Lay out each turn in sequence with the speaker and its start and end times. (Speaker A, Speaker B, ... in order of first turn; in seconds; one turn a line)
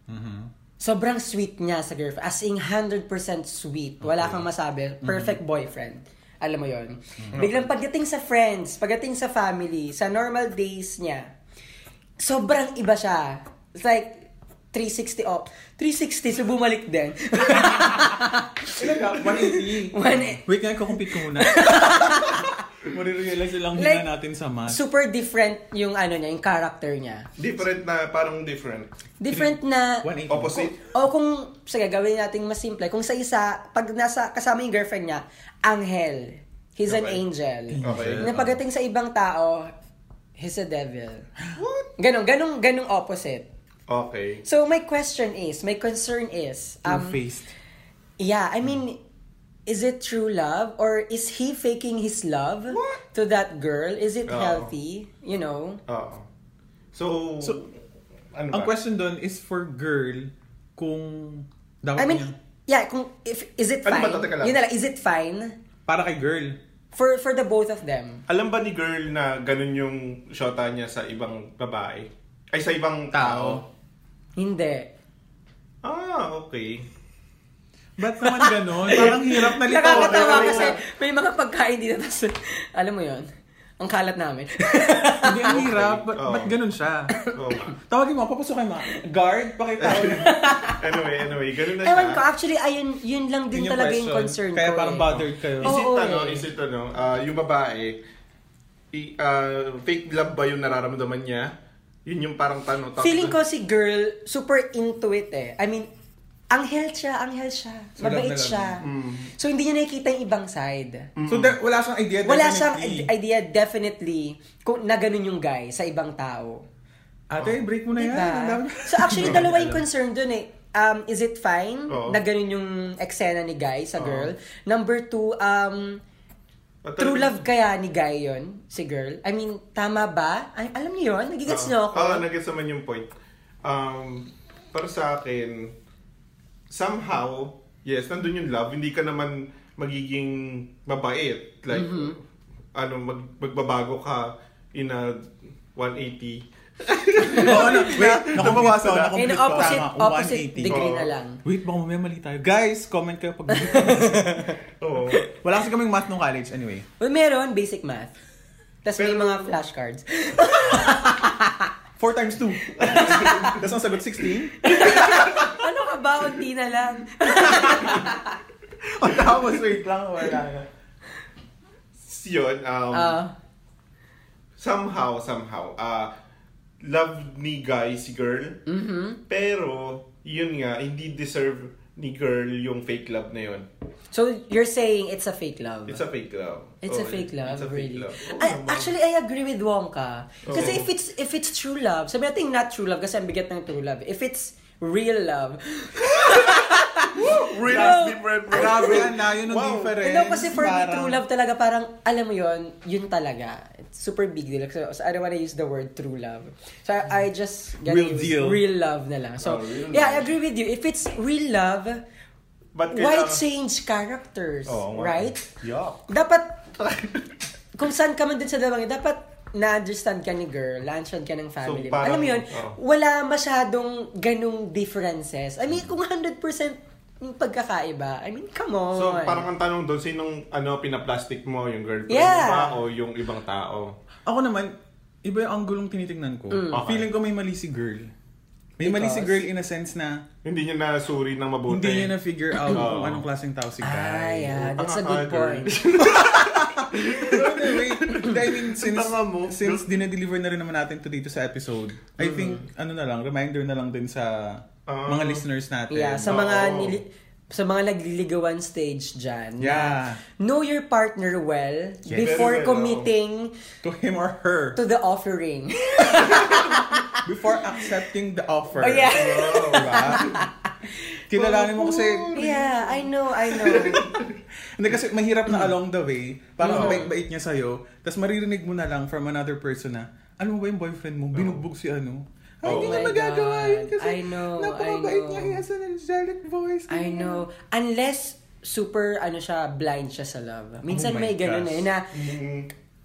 Speaker A: 0.1-0.5
Speaker B: 0.8-11.3
Speaker A: 4.0-4.4
Speaker A: 5.0-5.4
Speaker C: 7.3-7.7
Speaker B: 12.2-22.6
Speaker A: 17.4-24.8
Speaker B: 23.7-24.1
Speaker B: 24.7-27.3
Speaker C: 27.4-28.9
Speaker B: 29.2-30.1
Speaker A: 29.3-30.7
Speaker C: 30.3-30.8
Speaker B: 30.7-39.7
Speaker C: 36.9-37.2
Speaker A: 37.7-38.6
Speaker C: 37.8-38.3
Speaker B: 40.4-41.3
Speaker C: 41.5-41.9
Speaker B: 42.0-43.5
Speaker C: 43.9-44.4
Speaker B: 44.4-47.2
Speaker A: 46.8-47.5
Speaker B: 48.2-49.0
Speaker B: 49.7-55.8
Speaker C: 52.7-53.0
Speaker C: 54.3-54.7
Speaker C: 55.9-56.2
Speaker C: 56.9-57.7
Speaker C: 58.3-58.7
Speaker A: 58.5-62.3
Speaker B: 62.0-65.5
Speaker C: 63.8-64.6
Speaker A: 65.9-66.6
Speaker B: 66.9-68.2
Speaker C: 68.3-73.7
Speaker A: 73.1-73.6
Speaker B: 74.4-74.9
Speaker C: 75.8-76.9
Speaker A: 78.0-80.8
Speaker B: 78.2-83.3
Speaker C: 79.7-80.8
Speaker B: 83.8-85.6
Speaker A: 85.1-87.1
Speaker C: 85.5-86.5
Speaker C: 87.3-87.8
Speaker A: 87.8-90.4
Speaker C: 89.8-92.2
Speaker B: 90.0-91.1
Speaker B: 91.8-96.5
Speaker A: 93.5-95.8
Speaker C: 95.1-98.0
Speaker C: 98.9-101.5
Speaker C: 102.0-103.4
Speaker B: 103.0-105.9
Speaker B: 106.5-111.1
Speaker A: 108.0-108.8
Speaker C: 108.8-109.3
Speaker C: 111.2-111.5
Speaker A: 111.3-113.1
Speaker B: 112.2-116.6
Speaker A: 117.3-119.8
Speaker B: 117.9-126.0
Speaker C: 121.9-122.2
Speaker C: 124.0-124.3
Speaker C: 126.8-127.4
Speaker B: 127.0-132.2
Speaker C: 131.5-133.1
Speaker C: 133.6-135.7
Speaker C: 136.7-142.2
Speaker B: 141.7-142.2
Speaker C: 142.7-149.9
Speaker A: 147.3-150.9
Speaker B: 147.3-147.9
Speaker B: 149.1-151.4
Speaker C: 150.6-151.1
Speaker A: 151.4-154.5
Speaker B: 153.5-154.6
Speaker C: 154.8-155.2
Speaker A: 155.3-156.9
Speaker B: 157.0-158.1
Speaker B: 158.8-161.7
Speaker C: 159.0-159.5
Speaker A: 162.0-165.4
Speaker B: 162.7-163.6
Speaker C: 162.8-163.7
Speaker B: 164.6-168.4
Speaker A: 167.4-168.1
Speaker A: 168.8-170.7
Speaker C: 172.0-173.2
Speaker B: 172.9-173.3
Speaker C: 174.6-176.1
Speaker C: 176.8-178.6
Speaker B: 178.7-179.2
Speaker C: 179.3-183.7
Speaker B: 184.1-186.0
Speaker C: 185.9-188.9
Speaker B: 186.8-199.0
Speaker C: 190.4-190.9
Speaker C: 197.1-199.9
Speaker A: 197.7-198.0
Speaker A: 198.5-201.2
Speaker B: 200.0-212.0
Speaker A: 207.8-208.6
Speaker C: 209.4-210.3
Speaker C: 212.7-213.4
Speaker B: 212.9-215.5
Speaker C: 214.7-216.1
Speaker B: 216.1-216.6
Speaker C: 216.8-217.3
Speaker B: 217.8-229.4
Speaker C: 221.6-222.8
Speaker C: 228.9-233.9
Speaker B: 232.1-232.8
Speaker A: 234.2-238.1
Speaker B: 236.5-236.9
Speaker C: 236.7-237.1
Speaker A: 238.8-240.2
Speaker B: 238.8-239.4
Speaker C: 240.4-242.1
Speaker A: 241.7-244.7
Speaker C: 242.6-243.2
Speaker B: 243.8-245.8
Speaker C: 244.7-250.0
Speaker A: 246.0-256.5
Speaker B: 248.1-248.3
Speaker B: 252.2-252.6
Speaker C: 254.9-255.4
Speaker B: 255.9-263.5
Speaker C: 256.2-257.0
Speaker A: 259.6-260.2
Speaker A: 262.1-262.6
Speaker C: 262.2-263.1
Speaker A: 263.8-264.8
Speaker B: 264.8-267.2
Speaker A: 266.2-270.4
Speaker C: 266.3-266.6
Speaker B: 268.7-270.9
Speaker C: 269.1-270.4
Speaker A: 271.3-272.4
Speaker C: 271.3-274.4
Speaker B: 272.3-274.1
Speaker A: 273.7-274.1
Speaker A: 274.8-287.4
Speaker B: 276.6-277.1
Speaker C: 276.7-277.1
Speaker C: 281.3-281.6
Speaker C: 282.6-283.0
Speaker B: 282.6-285.6
Speaker B: 286.9-292.1
Speaker A: 290.9-291.9
Speaker C: 292.1-292.7